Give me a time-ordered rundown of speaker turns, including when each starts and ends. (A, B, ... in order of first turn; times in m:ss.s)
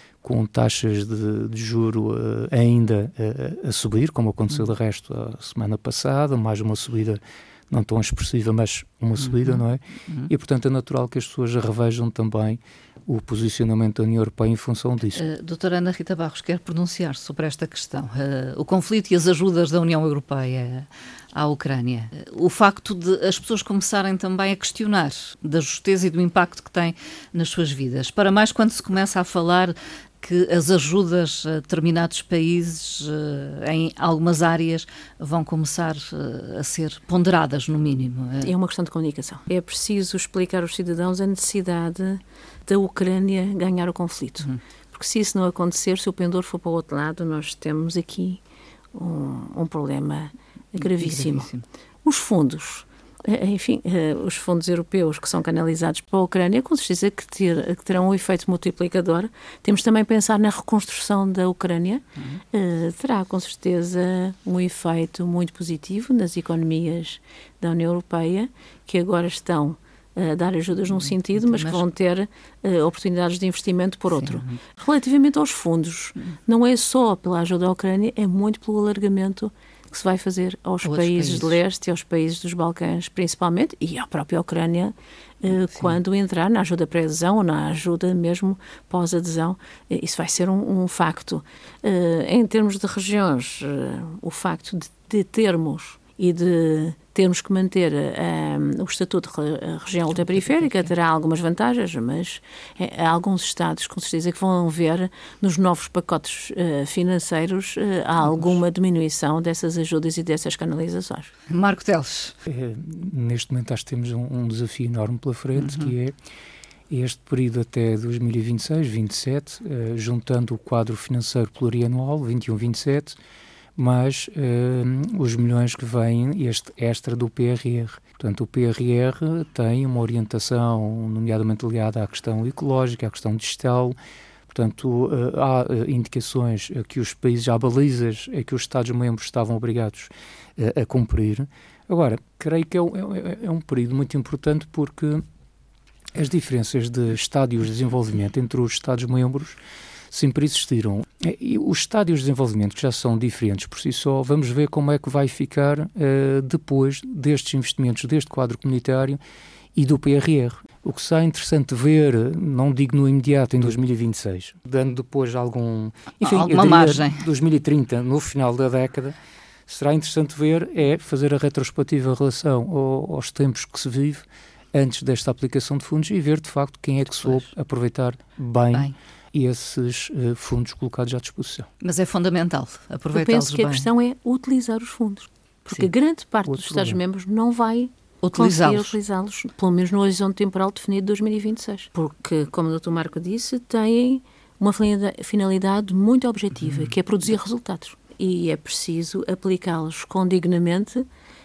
0:00.2-0:15.2 A
0:09.2-0:10.3 B
0:15.2-0:38.5 B
0:38.4-0:48.4 C
0:48.9-0:51.5 C
0:50.8-0:51.6 B
0:52.0-1:51.3 C
1:11.3-1:11.8 B
1:14.1-1:14.6 B
1:20.8-1:21.6 B
1:40.1-1:40.9 B
1:48.2-1:48.6 B
1:51.5-1:52.3 B
1:52.5-1:56.1 A
1:55.6-1:55.9 B
1:56.9-2:03.2 A
2:03.8-2:14.0 A
2:14.5-2:25.2 A
2:26.1-2:29.6 A
2:30.1-2:39.2 A
2:39.8-2:49.2 A
2:46.2-2:47.2 B
2:49.7-3:01.7 A
3:01.8-3:03.9 B
3:03.1-3:21.0 C
3:06.4-3:07.0 A
3:08.2-3:08.9 B